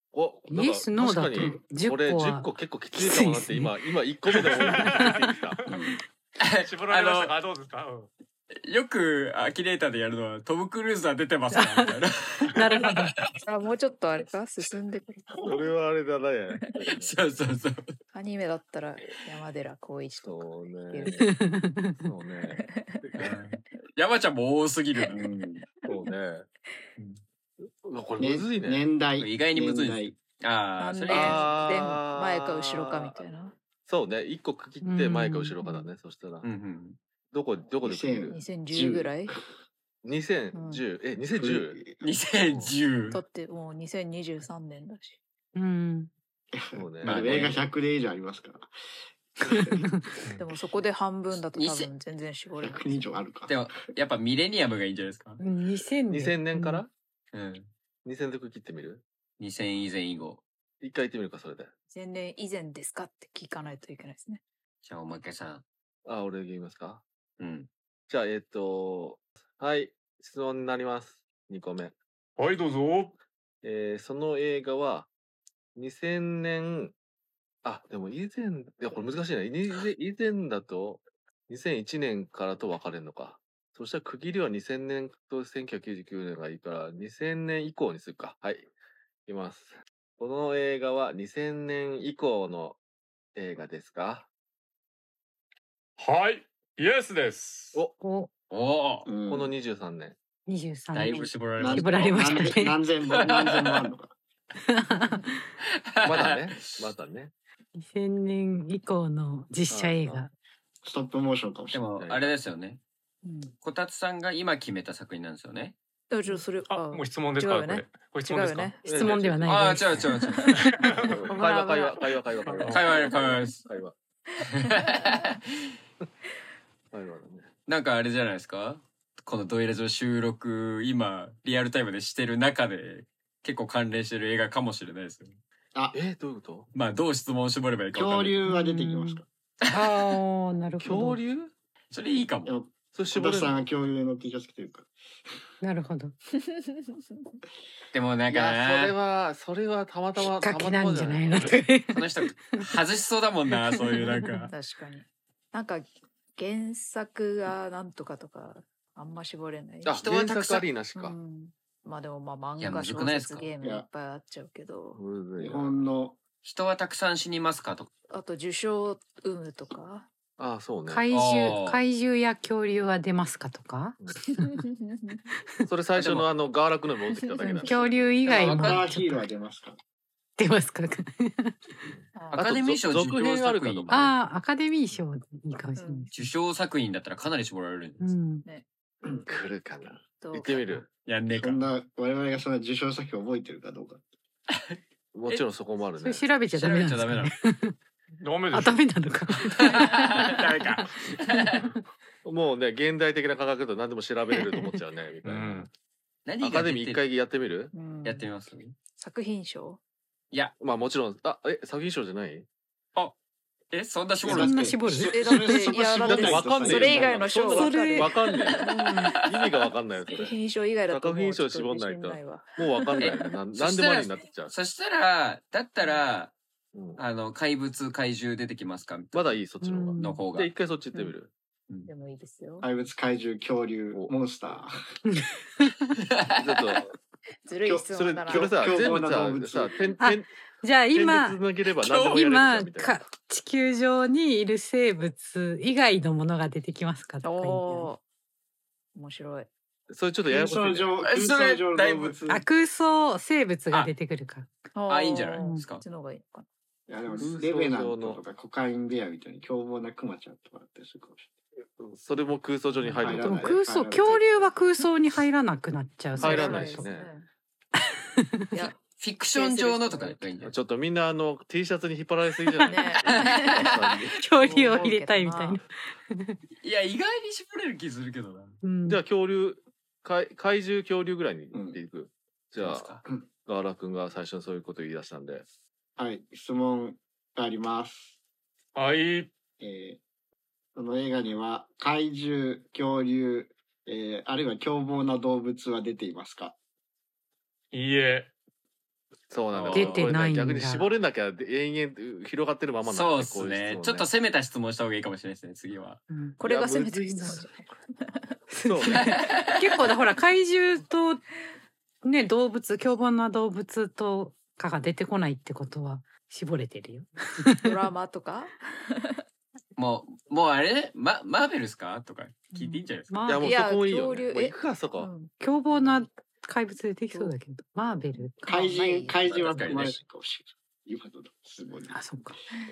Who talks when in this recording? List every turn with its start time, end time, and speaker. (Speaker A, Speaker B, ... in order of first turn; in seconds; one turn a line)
Speaker A: 0.1-5.6
Speaker B: 0.5-3.8
Speaker C: 4.6-5.2
Speaker B: 5.0-5.3
Speaker D: 5.7-6.0
Speaker E: 6.4-7.3
Speaker C: 6.6-8.1
Speaker E: 8.5-13.4
Speaker B: 11.5-13.2
Speaker F: 13.4-15.6
Speaker A: 15.4-17.2
Speaker E: 17.0-17.9
Speaker F: 18.1-21.3
Speaker A: 20.2-21.3
Speaker B: 21.1-22.0
Speaker A: 22.0-23.1
Speaker F: 22.5-22.9
Speaker E: 23.2-25.3
Speaker D: 25.1-25.6
Speaker A: 25.9-26.5
Speaker A: 27.6-28.9
Speaker D: 28.2-30.2
Speaker E: 29.2-31.6
Speaker F: 30.8-33.5
Speaker A: 31.1-33.3
Speaker A: 33.9-36.5
Speaker B: 34.8-35.9
Speaker E: 36.4-37.0
Speaker A: 37.3-38.4
Speaker D: 37.8-39.5
Speaker F: 38.3-39.4
Speaker A: 40.0-41.8
Speaker F: 40.5-40.8
Speaker D: 41.4-42.1
Speaker E: 42.0-43.2
Speaker F: 43.1-45.2
Speaker B: 45.5-46.1
Speaker D: 46.5-48.7
Speaker A: 46.8-47.5
Speaker E: 47.0-47.6
Speaker D: 49.4-49.9
Speaker B: 49.6-50.1
Speaker F: 50.4-53.0
Speaker E: 51.5-51.9
Speaker D: 52.6-53.6
Speaker E: 53.5-55.4
Speaker B: 55.4-56.8
Speaker A: 56.1-56.9
Speaker E: 57.3-57.7
Speaker A: 58.0-59.0
Speaker E: 59.4-60.4
Speaker A: 60.8-61.7
Speaker F: 61.9-64.4
Speaker E: 64.8-65.6
Speaker A: 66.0-67.0
Speaker E: 67.4-67.7
Speaker A: 68.1-72.0
Speaker C: 72.4-73.2
Speaker A: 73.6-75.1
Speaker A: 75.8-76.9
Speaker A: 77.6-88.7
Speaker A: 89.3-92.8
Speaker A: 93.3-94.3
Speaker C: 96.0-97.8
Speaker B: 98.0-98.3
Speaker E: 98.5-99.1
Speaker D: 99.1-99.5
Speaker A: 99.3-100.2
Speaker B: 100.5-102.8
Speaker E: 100.9-103.9
Speaker D: 101.6-104.1
Speaker B: 104.6-105.5
Speaker E: 105.8-106.9
Speaker A: 106.0-107.3
Speaker B: 107.8-110.3
Speaker A: 109.7-110.3
Speaker D: 110.8-112.0
Speaker E: 111.7-112.8
Speaker A: 112.0-112.3
Speaker F: 113.2-113.5
Speaker E: 113.6-115.8
Speaker F: 116.1-118.8
Speaker C: 116.7-118.8
Speaker A: 118.8-119.8
Speaker B: 118.9-120.1
Speaker E: 119.5-120.7
Speaker C: 120.0-121.3
Speaker A: 121.1-123.9
Speaker B: 121.4-121.9
Speaker C: 122.5-122.9
Speaker E: 122.7-123.6
Speaker E: 124.4-125.4
Speaker F: 124.8-125.3
Speaker A: 126.9-127.5
Speaker E: 127.7-135.4
Speaker A: 135.9-136.7
Speaker E: 136.7-138.4
Speaker D: 137.9-139.3
Speaker B: 138.5-141.2
Speaker A: 140.8-141.5
Speaker E: 141.9-142.6
Speaker D: 142.5-144.9
Speaker A: 142.9-143.7
Speaker B: 145.6-146.1
Speaker F: 146.5-147.0
Speaker E: 147.9-148.9
Speaker A: 148.3-151.6
Speaker B: 150.2-152.7
Speaker E: 151.4-154.5
Speaker B: 153.5-154.5
Speaker F: 154.5-160.0
Speaker A: 159.8-161.2
Speaker E: 159.9-160.7
Speaker F: 160.9-165.0
Speaker E: 162.6-163.5
Speaker D: 163.6-163.9
Speaker A: 165.0-165.8
Speaker D: 165.4-166.2
Speaker E: 166.4-167.9
Speaker F: 168.1-170.1
Speaker A: 170.4-171.1
Speaker B: 170.9-174.0
Speaker E: 171.1-171.8
Speaker F: 174.3-175.2
Speaker A: 175.7-177.8
Speaker E: 176.0-176.3
Speaker F: 177.3-178.5
Speaker B: 177.6-179.3
Speaker E: 178.3-178.8
Speaker D: 178.3-179.8
Speaker B: 180.4-181.9
Speaker F: 182.1-182.5
Speaker E: 182.3-184.1
Speaker A: 182.3-184.2
Speaker B: 183.9-186.1
Speaker F: 185.8-186.1
Speaker E: 186.1-188.1
Speaker B: 188.0-188.4
Speaker A: 189.3-190.9
Speaker F: 190.2-190.7
Speaker E: 191.0-191.7
Speaker D: 191.3-194.0
Speaker A: 195.1-196.3
Speaker B: 196.0-197.8
Speaker E: 196.5-197.3
Speaker C: 198.2-198.8
Speaker B: 198.5-201.7
Speaker E: 199.5-201.7
Speaker A: 202.2-205.7
Speaker C: 205.2-205.7
Speaker E: 206.3-207.1
Speaker A: 206.4-207.7
Speaker F: 207.7-208.3
Speaker E: 208.0-208.8
Speaker F: 209.0-209.8
Speaker A: 210.6-212.5
Speaker E: 213.7-214.8
Speaker D: 214.2-217.5
Speaker B: 214.3-215.4
Speaker F: 215.1-218.9
Speaker A: 215.6-220.4
Speaker B: 217.5-219.2
Speaker F: 220.0-223.1
Speaker A: 220.9-224.5
Speaker E: 223.0-226.3
Speaker A: 226.7-227.0
Speaker E: 227.0-229.4
Speaker A: 229.1-231.3
Speaker B: 229.6-230.3
Speaker E: 230.0-230.5
Speaker F: 231.9-232.7
Speaker D: 232.6-234.8
Speaker B: 235.1-235.7
Speaker E: 236.1-236.4
Speaker A: 236.3-237.0
Speaker F: 237.4-238.6
Speaker D: 237.7-239.9
Speaker A: 237.9-240.3
Speaker B: 240.0-247.9
Speaker A: 240.9-243.0
Speaker E: 241.8-242.2
Speaker F: 247.2-248.0
Speaker F: 248.9-249.5
Speaker A: 249.9-250.9
Speaker D: 250.3-252.4
Speaker E: 251.0-252.2
Speaker B: 252.3-254.5
Speaker F: 254.7-256.5
Speaker E: 254.9-255.8
Speaker D: 256.9-261.3
Speaker A: 257.2-258.2
Speaker A: 261.8-263.6
Speaker B: 262.9-266.9
Speaker D: 263.0-264.5
Speaker F: 266.1-267.3
Speaker A: 266.2-267.1
Speaker B: 267.8-268.7
Speaker E: 269.0-270.6
Speaker F: 269.3-270.2
Speaker A: 270.4-274.5
Speaker F: 272.7-273.7
Speaker E: 273.1-273.9
Speaker B: 274.1-276.4
Speaker F: 274.4-275.6
Speaker E: 276.6-278.6
Speaker B: 278.6-279.0
Speaker A: 278.9-282.9
Speaker D: 281.5-281.8
Speaker E: 282.6-283.1
Speaker A: 283.4-285.4
Speaker D: 286.0-288.2
Speaker C: 288.8-289.3
Speaker D: 289.6-290.0
Speaker D: 290.8-296.6
Speaker C: 297.7-298.3
Speaker A: 299.3-304.1
Speaker E: 299.5-300.1
Speaker B: 299.7-300.9
Speaker E: 302.8-306.0
Speaker B: 306.1-306.4
Speaker F: 306.4-308.2
Speaker A: 306.4-307.5
Speaker B: 308.5-311.2
Speaker A: 308.6-309.2
Speaker E: 308.8-309.8
Speaker B: 312.0-317.8
Speaker F: 317.6-319.2
Speaker E: 319.8-323.1
Speaker F: 322.5-322.9
Speaker B: 323.1-323.6
Speaker A: 323.3-325.1
Speaker F: 323.4-326.1
Speaker B: 325.4-328.7
Speaker D: 328.4-332.0
Speaker F: 328.5-329.6
Speaker E: 329.3-330.0
Speaker B: 331.9-332.4